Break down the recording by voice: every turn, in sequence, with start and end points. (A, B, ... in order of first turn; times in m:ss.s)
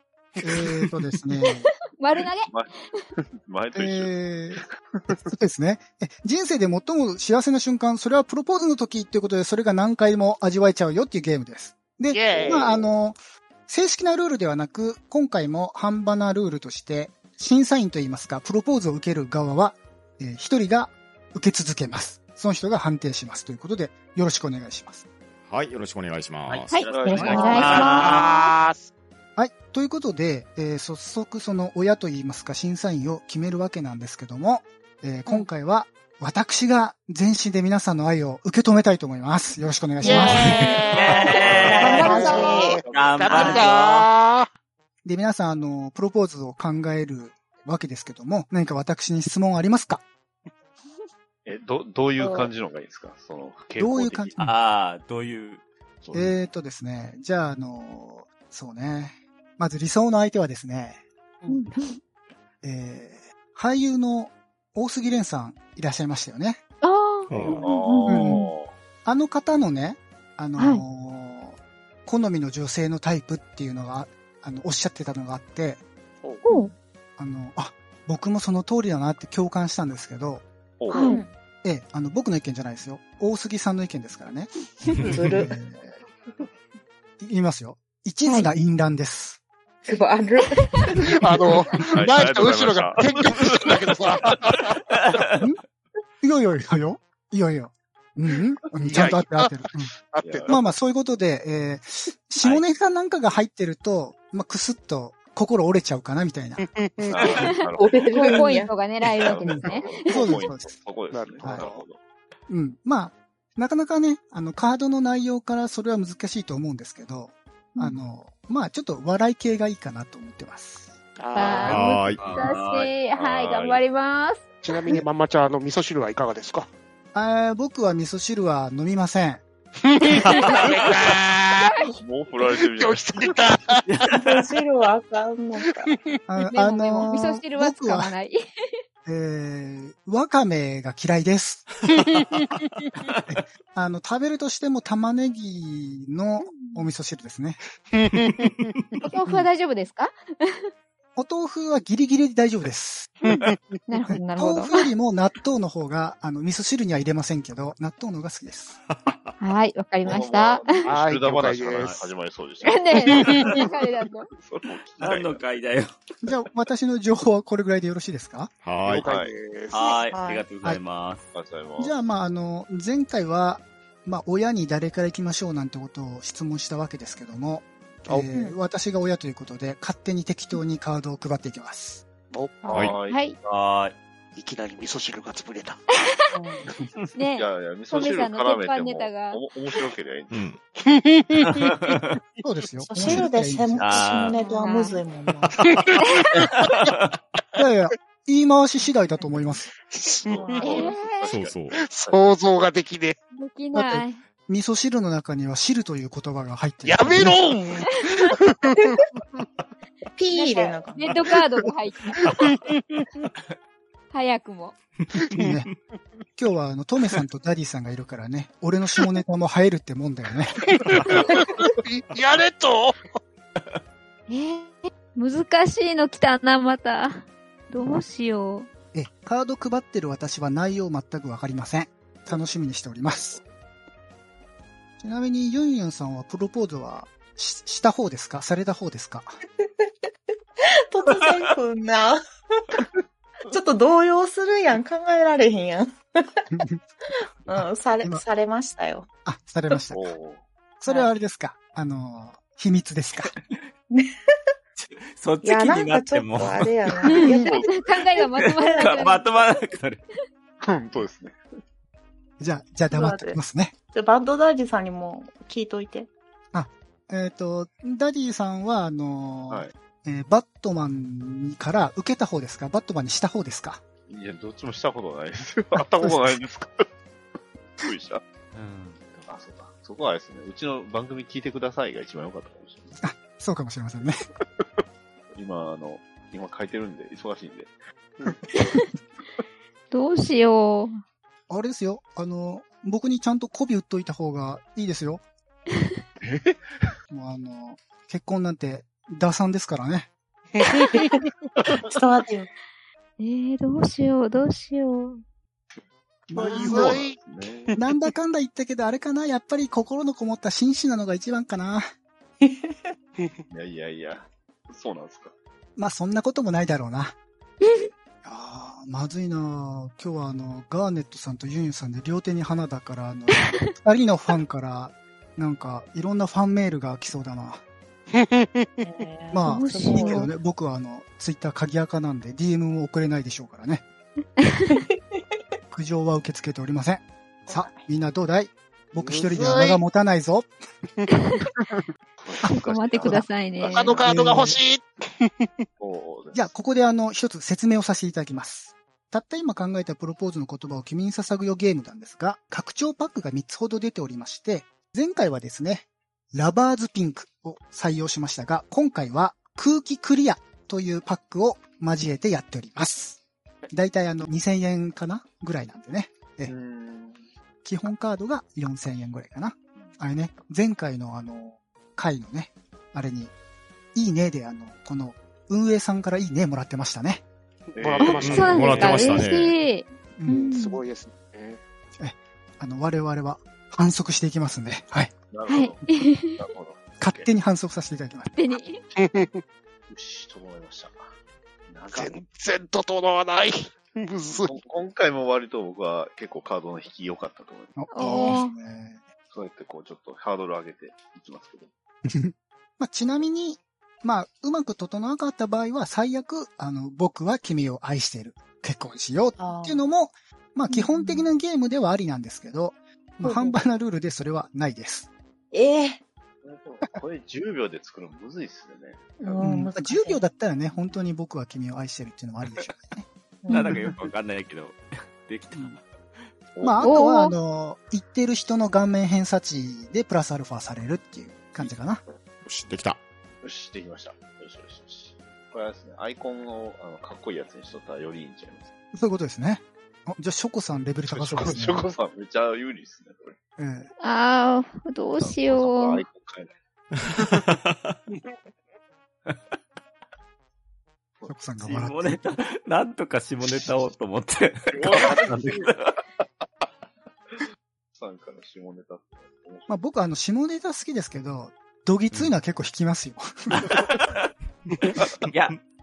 0:00.4-0:01.7 A
0:01.6-0:02.5 B
0:02.5-0:04.1 C
0:03.7-0:25.0 A
0:12.1-0:12.8 D
0:12.3-0:12.7 C
0:25.5-0:26.8 E
0:26.5-0:28.5 F
0:26.7-0:28.4 B
0:26.8-0:28.1 C
0:27.0-0:27.7 G
0:27.5-0:28.9 D
0:29.4-0:40.5 A
0:40.0-0:42.8 G
0:40.0-0:44.5 D
0:40.4-0:42.2 F
0:41.6-0:42.8 B
0:42.8-0:43.6 C
0:42.9-0:44.1 F
0:43.3-0:43.6 G
0:45.0-0:50.0 A
0:51.4-0:54.3 C
0:52.2-0:52.5 G
0:53.8-0:54.6 A
0:54.4-0:55.6 F
0:56.0-0:56.3 C
0:56.1-1:01.0 A
1:01.5-1:02.0 B
1:02.6-1:06.6 A
1:06.8-1:08.5 B
1:07.3-1:07.6 E
1:07.3-1:08.7 C
1:08.0-1:08.4 A
1:09.0-1:15.8 A
1:10.6-1:10.8 B
1:16.2-1:16.5 D
1:16.4-1:16.7 B
1:17.2-1:20.4 A
1:20.8-1:21.0 C
1:20.9-1:21.2 B
1:20.9-1:21.3 G
1:21.6-1:24.5 A
1:25.0-1:25.5 G
1:25.1-1:25.9 A
1:27.2-1:29.4 A
1:29.8-1:30.9 G
1:31.0-1:34.7 D
1:31.8-1:34.6 C
1:36.2-1:39.9 A
1:38.8-1:40.6 D
1:40.2-1:40.6 C
1:40.5-1:46.7 A
1:46.6-1:47.4 D
1:47.1-1:48.4 C
1:47.4-1:50.5 B
1:47.8-1:48.7 G
1:49.0-1:52.0 C
1:49.5-1:50.7 A
1:51.1-1:51.8 D
1:52.5-2:00.9 A
1:57.8-1:58.0 B
2:01.2-2:01.8 D
2:01.3-2:04.5 B
2:01.6-2:02.3 E
2:02.2-2:02.9 F
2:03.1-2:03.8 C
2:04.6-2:06.7 D
2:07.1-2:09.4 A
2:09.9-2:11.8 D
2:10.2-2:10.6 E
2:12.0-2:13.4 C
2:12.4-2:13.8 D
2:13.9-2:14.3 F
2:14.1-2:15.9 G
2:15.8-2:16.2 D
2:16.3-2:18.1 A
2:16.5-2:18.4 B
2:19.0-2:21.7 A
2:21.9-2:22.8 D
2:23.3-2:27.6 A
2:26.4-2:26.9 B
2:28.0-2:28.7 D
2:29.1-2:30.7 B
2:31.2-2:33.2 A
2:33.3-2:33.6 D
2:33.9-2:34.9 B
2:34.1-2:38.8 A
2:38.9-2:39.4 E
2:39.4-2:40.9 B
2:40.0-2:43.7 C
2:40.9-2:42.1 D
2:42.6-2:44.3 B
2:43.2-2:43.6 D
2:44.3-2:45.4 C
2:45.0-2:45.9 F
2:46.2-2:48.5 A
2:48.6-2:49.0 E
2:48.8-2:49.3 C
2:49.0-2:49.9 D
2:49.7-2:51.3 F
2:50.1-2:50.4 G
2:51.3-2:51.9 C
2:51.8-3:02.0 A
3:02.3-3:03.0 D
3:02.6-3:02.9 G
3:02.7-3:03.2 C
3:03.0-3:03.4 B
3:03.4-3:04.0 F
3:04.4-3:05.8 D
3:06.0-3:06.4 B
3:06.3-3:06.6 G
3:07.1-3:09.8 B
3:07.3-3:10.4 C
3:10.3-3:10.6 E
3:10.9-3:11.9 D
3:11.4-3:12.1 F
3:12.4-3:14.1 A
3:12.9-3:15.5 G
3:13.8-3:14.4 F
3:14.3-3:15.0 B
3:15.6-3:15.9 D
3:16.0-3:16.5 B
3:16.6-3:16.9 D
3:17.6-3:19.7 A
3:20.2-3:20.6 D
3:20.2-3:22.2 C
3:20.3-3:20.8 G
3:20.6-3:21.3 B
3:21.2-3:21.8 E
3:21.7-3:23.2 D
3:23.3-3:24.2 B
3:23.7-3:27.4 A
3:26.8-3:29.0 D
3:27.9-3:28.3 B
3:30.2-3:31.1 G
3:30.4-3:32.2 B
3:32.2-3:32.8 D
3:34.1-3:34.7 B
3:35.4-3:35.7 A
3:36.4-3:40.6 A
3:40.6-3:43.0 D
3:44.3-3:48.7 B
3:48.9-3:53.4 A
3:55.0-3:59.3 A
4:00.9-4:02.2 G
4:03.5-4:06.4 G
4:06.5-4:06.8 A
4:07.5-4:08.2 A
4:07.5-4:09.1 G
4:09.2-4:10.1 A
4:09.9-4:10.4 C
4:10.8-4:13.3 A
4:10.9-4:11.1 G
4:14.8-4:17.1 F
4:15.4-4:17.6 G
4:17.0-4:19.6 B
4:17.2-4:18.0 C
4:18.4-4:20.0 F
4:18.6-4:19.0 G
4:20.6-4:21.4 C
4:22.4-4:23.7 A
4:22.9-4:23.4 G
4:23.9-4:26.1 G
4:26.5-4:33.8 A
4:34.1-4:36.9 C
4:35.9-4:36.4 A
4:37.8-4:38.2 C
4:38.5-4:39.0 F
4:39.1-4:43.0 C
4:43.0-4:44.2 A
4:45.3-4:47.7 C
4:48.6-4:48.8 B
4:49.9-4:50.9 B
4:51.5-4:55.2 A
4:56.2-4:56.9 C
4:57.1-5:00.1 A
5:00.6-5:01.2 D
5:01.9-5:02.5 G
5:03.2-5:05.2 B
5:06.3-5:07.0 A
5:06.3-5:07.7 C
5:06.3-5:07.2 D
5:07.8-5:11.9 A
5:13.5-5:15.3 C
5:15.8-5:17.2 A
5:17.6-5:17.9 B
5:18.2-5:27.6 A
5:23.3-5:23.7 B
5:28.2-5:28.4 D
5:28.8-5:30.3 G
5:29.3-5:33.8 A
5:29.4-5:30.3 B
5:34.4-5:34.7 B
5:35.7-5:40.5 A
5:39.0-5:39.8 D
5:42.2-5:44.1 C
5:42.4-5:44.0 B
5:43.7-5:44.8 D
5:44.0-5:44.6 A
5:45.8-5:46.5 C
5:46.3-6:03.2 A
6:03.7-6:06.5 A
6:06.5-6:07.3 C
6:07.6-6:13.3 A
6:13.9-6:17.2 A
6:17.7-6:19.2 D
6:17.8-6:19.2 C
6:18.0-6:20.8 B
6:18.0-6:19.5 E
6:20.2-6:20.5 A
6:20.3-6:21.6 D
6:22.0-6:25.1 A
6:25.3-6:25.8 C
6:25.5-6:26.4 B
6:26.4-6:27.3 C
6:27.0-6:28.3 A
6:28.3-6:28.8 B
6:29.0-6:29.4 D
6:29.9-6:31.0 C
6:31.7-6:32.3 C
6:31.9-6:34.5 D
6:34.4-6:37.9 C
6:37.8-6:39.0 A
6:37.9-6:38.5 B
6:39.3-6:41.7 C
6:42.1-6:55.1 A
6:49.4-6:49.8 G
6:50.7-6:51.2 G
6:53.2-6:53.6 G
6:55.5-6:56.0 G
6:56.4-6:59.1 C
6:59.2-7:00.2 G
6:59.4-7:03.0 A
7:03.4-7:03.8 G
7:03.5-7:04.0 B
7:03.5-7:05.8 F
7:06.6-7:07.0 C
7:06.6-7:12.0 A
7:06.8-7:07.3 B
7:12.4-7:13.0 E
7:13.4-7:18.7 C
7:18.9-7:21.8 A
7:21.1-7:23.4 C
7:23.6-7:23.9 A
7:24.0-7:26.0 B
7:25.2-7:26.5 C
7:27.0-7:28.0 E
7:31.3-7:32.2 A
7:31.6-7:35.9 F
7:34.7-7:35.7 C
7:37.9-7:39.7 C
7:39.7-7:43.6 A
7:43.5-7:44.3 F
7:45.2-7:45.6 F